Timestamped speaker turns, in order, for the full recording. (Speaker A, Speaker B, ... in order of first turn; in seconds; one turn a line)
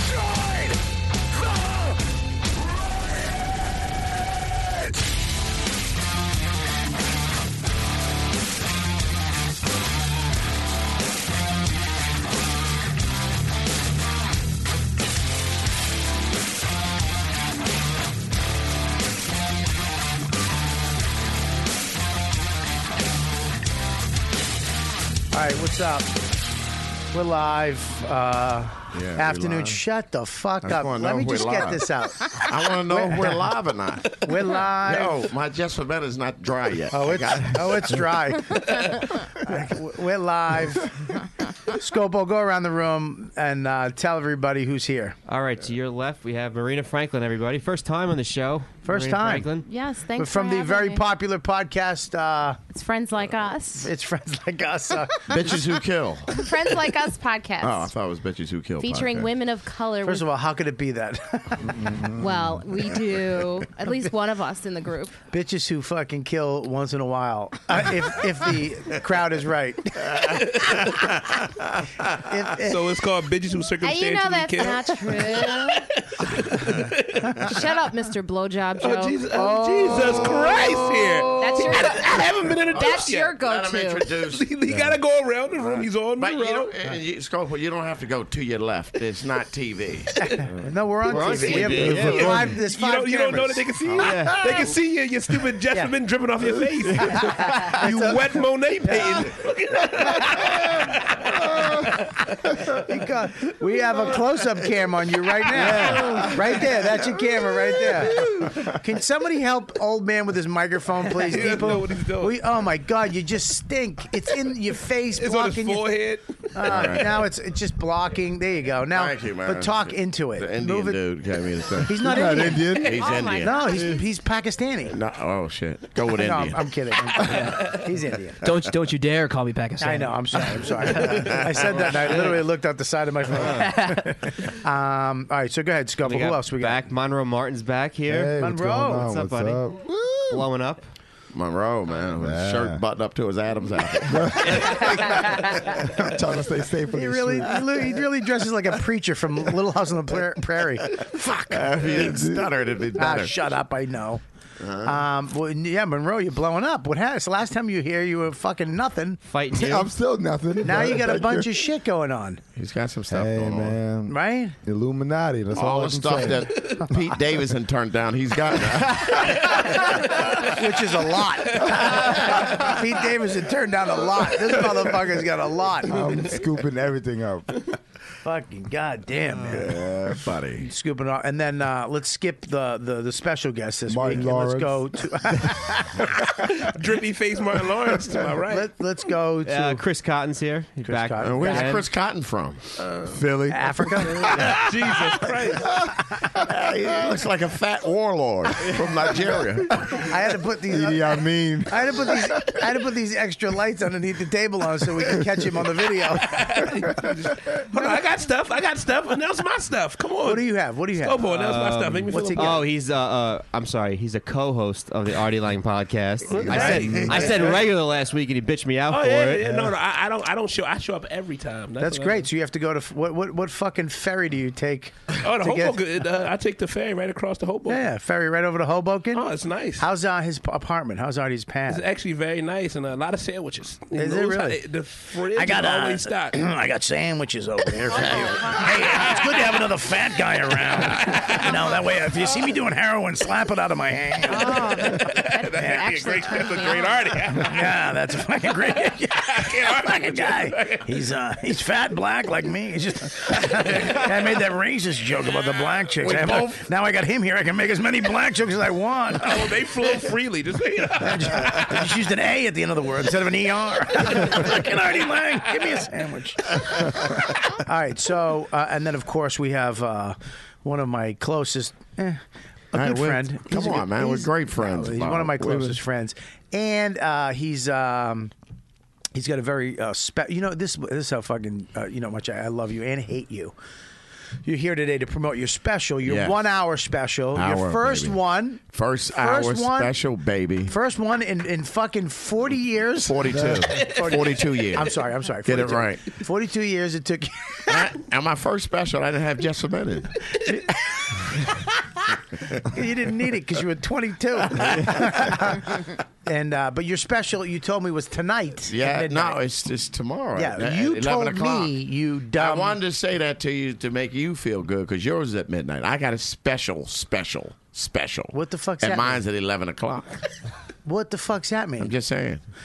Speaker A: 0.3-0.8
Speaker A: 25.3-26.1
Speaker A: 27.1-33.5
Speaker B: 28.9-29.8
Speaker B: 30.6-34.2
Speaker A: 34.2-35.3
Speaker B: 34.8-38.0
Speaker A: 36.9-41.0
Speaker A: 41.7-45.2
Speaker C: 45.3-49.6
Speaker A: 48.9-49.5
Speaker D: 49.6-51.0
Speaker A: 50.1-52.6
Speaker D: 52.7-53.9
Speaker A: 53.8-55.6
Speaker B: 55.3-56.5
Speaker D: 56.3-57.9
Speaker B: 57.6-59.3
Speaker D: 58.8-60.2
Speaker A: 60.0-62.0
Speaker E: 61.7-62.5
Speaker D: 62.2-65.2
Speaker A: 65.3-70.9
Speaker B: 70.7-72.0
Speaker A: 72.2-72.9
Speaker F: 72.6-77.5
Speaker D: 73.8-75.8
Speaker D: 77.4-79.2
Speaker F: 78.8-83.4
Speaker A: 79.3-80.6
Speaker B: 80.0-80.2
Speaker D: 81.4-84.1
Speaker B: 82.5-84.5
Speaker F: 84.3-86.7
Speaker E: 84.7-85.0
Speaker B: 85.6-90.1
Speaker F: 90.1-90.5
Speaker A: 90.2-94.6
Speaker C: 91.1-92.6
Speaker B: 91.2-92.4
Speaker E: 91.6-92.5
Speaker F: 92.5-102.5
Speaker C: 94.0-94.6
Speaker C: 96.9-97.8
Speaker A: 97.1-99.4
Speaker A: 99.9-100.5
Speaker E: 101.4-102.0
Speaker A: 102.8-116.0
Speaker C: 105.5-106.4
Speaker F: 108.1-108.5
Speaker F: 111.0-112.4
Speaker F: 115.1-116.9
Speaker A: 116.5-121.0
Speaker B: 116.6-117.3
Speaker B: 118.9-122.2
Speaker A: 121.8-125.0
Speaker E: 122.0-123.0
Speaker B: 122.7-123.7
Speaker D: 122.7-124.0
Speaker B: 124.9-126.7
Speaker A: 126.1-128.4
Speaker G: 127.2-127.7
Speaker G: 128.4-131.3
Speaker A: 129.8-136.9
Speaker B: 131.4-132.1
Speaker C: 133.3-133.7
Speaker C: 136.0-138.4
Speaker E: 138.1-140.5
Speaker A: 138.4-139.1
Speaker C: 138.9-139.7
Speaker C: 140.3-140.9
Speaker B: 141.3-145.6
Speaker E: 142.2-142.8
Speaker E: 144.1-147.6
Speaker A: 146.9-152.2
Speaker B: 151.0-153.5
Speaker E: 151.9-152.5
Speaker A: 153.0-154.2
Speaker B: 154.6-155.0
Speaker A: 154.8-159.2
Speaker C: 159.2-159.9
Speaker E: 159.5-161.6
Speaker A: 160.6-162.4
Speaker B: 162.6-163.8
Speaker E: 163.1-166.5
Speaker A: 164.1-164.6
Speaker B: 165.5-170.4
Speaker F: 166.5-166.8
Speaker A: 166.8-167.1
Speaker F: 169.2-170.4
Speaker A: 170.4-176.4
Speaker F: 171.5-172.5
Speaker E: 175.9-177.7
Speaker A: 178.2-179.9
Speaker B: 179.5-180.7
Speaker A: 180.6-186.3
Speaker E: 183.9-185.7
Speaker F: 186.6-188.7
Speaker A: 188.4-189.8
Speaker C: 189.4-191.8
Speaker A: 190.8-191.8
Speaker B: 191.2-193.2
Speaker E: 193.1-194.4
Speaker A: 193.5-195.2
Speaker F: 194.5-195.7
Speaker B: 196.4-199.9
Speaker A: 199.9-206.5
Speaker E: 200.7-202.3
Speaker F: 206.0-212.6
Speaker A: 207.8-208.0
Speaker A: 210.2-211.3
Speaker C: 211.3-219.5
Speaker A: 212.1-212.7
Speaker F: 216.3-217.6
Speaker E: 216.5-217.4
Speaker F: 218.9-222.3
Speaker E: 219.4-219.7
Speaker A: 221.8-225.8
Speaker F: 225.2-227.8
Speaker A: 227.7-229.3
Speaker F: 229.1-229.9
Speaker A: 229.8-231.8
Speaker F: 231.7-236.4
Speaker A: 233.9-234.6
Speaker A: 235.3-245.0
Speaker F: 237.9-239.2
Speaker F: 241.0-241.8
Speaker D: 244.3-247.2
Speaker F: 244.4-247.8
Speaker A: 245.6-245.8
Speaker A: 247.3-260.0
Speaker F: 249.2-251.0
Speaker F: 255.4-255.8
Speaker B: 256.0-256.7
Speaker F: 259.2-262.0
Speaker A: 261.0-272.2
Speaker F: 264.0-264.7
Speaker A: 272.7-278.3
Speaker B: 272.7-275.6
Speaker E: 275.4-275.8
Speaker A: 279.1-283.5
Speaker A: 284.4-289.9
Speaker B: 286.0-286.4
Speaker B: 287.3-290.7
Speaker A: 290.7-297.9
Speaker B: 293.0-296.2
Speaker F: 293.7-294.0
Speaker B: 297.7-300.1
Speaker A: 300.4-301.6
Speaker A: 302.6-309.4
Speaker B: 304.6-305.2
Speaker B: 308.7-311.8
Speaker A: 310.4-312.8
Speaker B: 312.3-320.2
Speaker A: 318.3-319.2
Speaker A: 320.8-321.9
Speaker B: 321.8-322.4